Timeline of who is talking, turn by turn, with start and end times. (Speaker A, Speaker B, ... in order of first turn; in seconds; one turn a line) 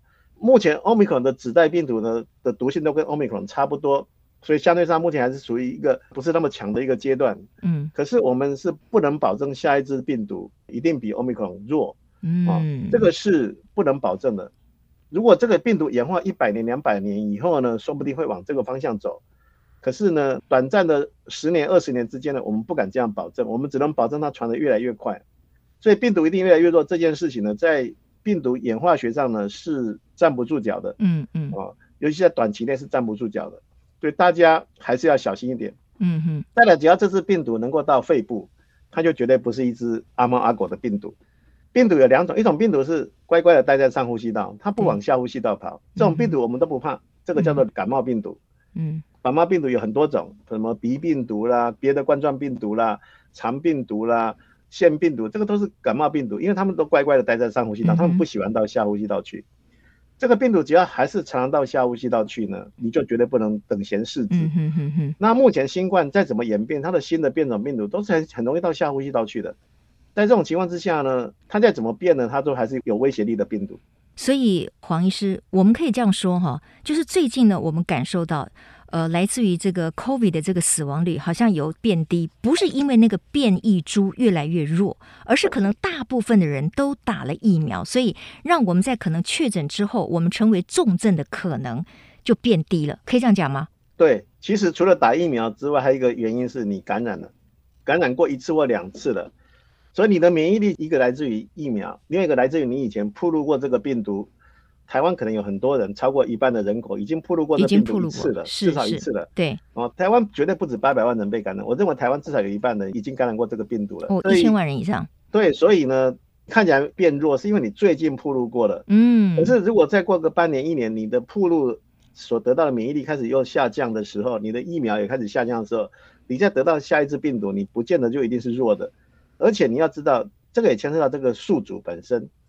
Speaker A: 0.4-14.5
Speaker B: 7.6-7.9
Speaker B: 12.2-13.1
Speaker A: 15.1-19.2
Speaker A: 19.8-25.2
Speaker A: 25.8-31.0
Speaker B: 31.0-31.6
Speaker A: 31.5-35.8
Speaker B: 36.0-36.5
Speaker A: 36.5-41.1
Speaker A: 41.7-48.4
Speaker B: 46.0-46.4
Speaker B: 47.4-47.6
Speaker B: 48.8-49.0
Speaker A: 49.2-59.5
Speaker B: 57.8-58.2
Speaker A: 60.2-64.5
Speaker B: 64.3-65.2
Speaker A: 65.2-69.6
Speaker A: 70.2-73.8
Speaker B: 74.2-93.7
Speaker A: 94.0-97.3
Speaker A: 97.9-99.3
Speaker A: 99.9-104.3
Speaker A: 104.9-114.5
Speaker B: 107.6-109.6
Speaker B: 114.1-115.1
Speaker A: 115.3-118.8
Speaker B: 118.9-119.6
Speaker A: 119.4-132.3